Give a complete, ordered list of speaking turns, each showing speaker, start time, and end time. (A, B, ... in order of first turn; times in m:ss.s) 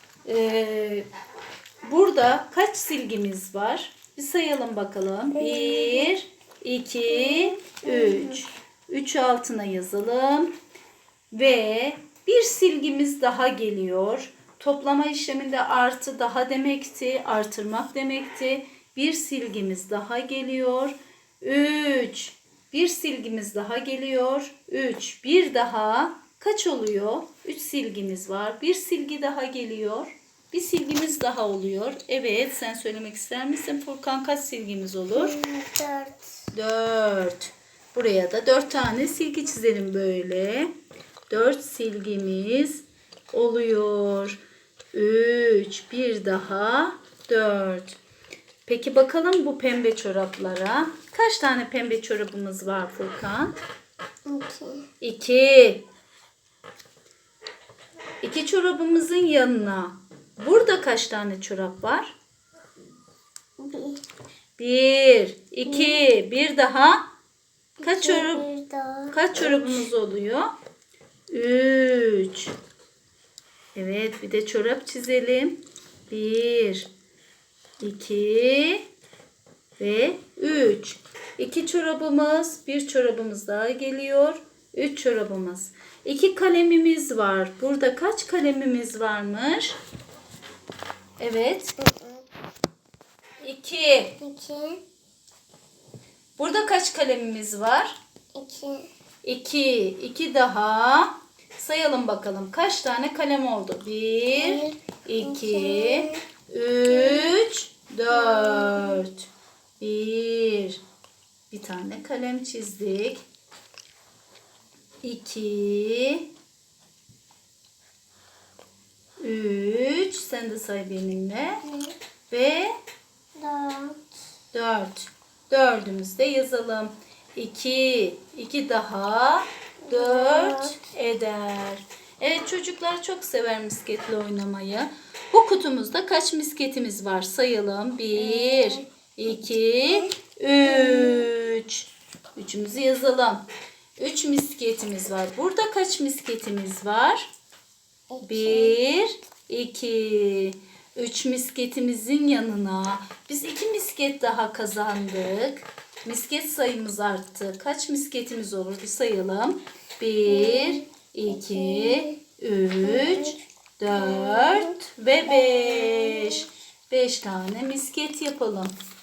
0:00.2-0:01.1 A
0:01.8-0:10.5 A
0:05.3-0:06.1 B
0:07.1-0:08.4 B
0:11.3-0:35.4 A
0:35.1-0:36.2 B
0:36.5-0:40.7 A
0:41.3-0:44.4 A
0:44.9-0:48.0 A
0:48.7-0:53.5 A
0:54.3-0:54.9 B
0:55.0-0:55.8 A
0:58.2-1:02.2 A
1:03.6-1:04.0 B
1:04.6-1:07.0 A
1:05.6-1:06.0 B
1:07.8-1:09.9 B
1:07.8-1:08.5 A
1:09.1-1:10.5 A
1:11.3-1:12.5 A
1:13.8-1:16.9 A
1:17.8-1:18.8 A
1:19.8-1:29.8 A
1:31.2-1:31.8 A
1:31.8-1:32.3 B
1:33.4-1:34.2 A
1:34.2-1:34.8 B
1:36.4-1:38.0 A
1:38.3-1:38.9 B
1:39.2-1:49.3 A
1:44.3-1:46.2 B
1:46.9-1:47.4 B
1:48.1-1:49.0 B
1:49.8-1:50.8 A
1:51.5-1:53.2 A
1:55.0-1:56.3 A
1:59.2-2:01.6 A
2:01.6-2:02.0 B
2:02.3-2:02.7 A
2:03.4-2:04.0 B
2:04.5-2:23.4 A
2:09.8-2:10.8 B
2:18.2-2:18.8 B
2:20.6-2:21.3 B
2:24.0-2:27.3 A
2:28.1-2:28.8 B
2:28.2-2:48.7 A
2:40.3-2:42.2 B
2:42.8-2:46.5 B